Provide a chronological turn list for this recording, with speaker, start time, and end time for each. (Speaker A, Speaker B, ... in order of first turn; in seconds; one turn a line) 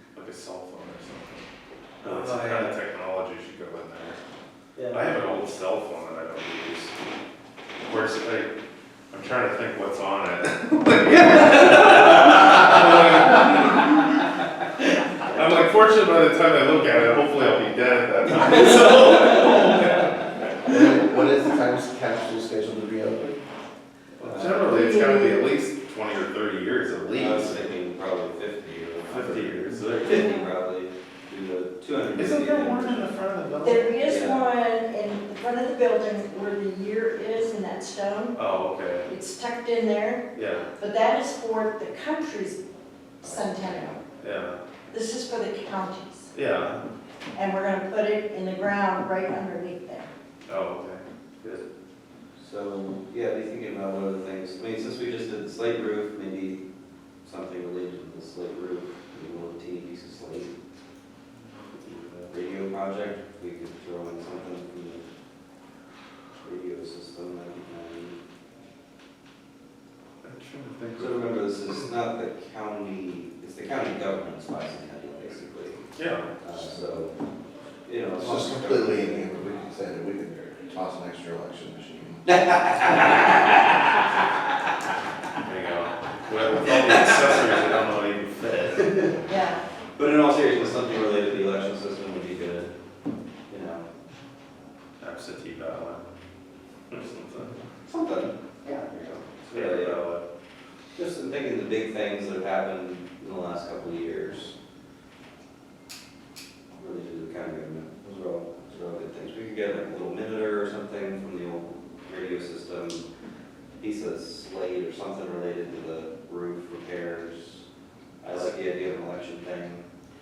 Speaker A: 0.1-1.5
Speaker A: 2.0-4.2
Speaker B: 2.0-2.8
Speaker B: 4.8-5.4
Speaker A: 4.9-7.0
Speaker A: 7.8-8.5
Speaker A: 9.1-14.2
Speaker A: 15.2-20.7
Speaker C: 20.6-23.4
Speaker A: 24.2-27.7
Speaker B: 24.2-24.7
Speaker D: 24.7-25.4
Speaker B: 27.1-33.1
Speaker A: 29.1-30.4
Speaker D: 30.1-30.5
Speaker A: 32.1-34.1
Speaker D: 33.6-38.4
Speaker B: 34.0-34.5
Speaker A: 38.3-39.1
Speaker D: 39.1-42.6
Speaker A: 40.4-40.7
Speaker D: 43.2-44.0
Speaker B: 43.2-44.0
Speaker A: 44.2-44.6
Speaker D: 44.9-46.3
Speaker A: 46.3-46.9
Speaker D: 47.3-50.1
Speaker A: 50.5-51.0
Speaker B: 52.4-56.6
Speaker B: 57.2-60.5
Speaker A: 61.5-62.3
Speaker B: 62.3-65.1
Speaker B: 66.4-68.2
Speaker A: 70.2-71.3
Speaker B: 71.0-77.1
Speaker A: 76.0-76.3
Speaker B: 77.9-79.3
Speaker C: 78.2-82.3
Speaker B: 82.3-84.0
Speaker A: 85.4-89.1
Speaker B: 86.6-87.6
Speaker B: 88.9-89.1
Speaker D: 89.3-89.6
Speaker B: 90.0-92.7
Speaker B: 93.5-93.9
Speaker A: 95.0-96.0
Speaker A: 96.9-97.5
Speaker B: 97.8-98.4
Speaker A: 98.7-100.2
Speaker B: 99.3-100.0
Speaker B: 101.0-104.5
Speaker B: 106.8-113.1
Speaker B: 113.8-117.6
Speaker B: 118.2-119.9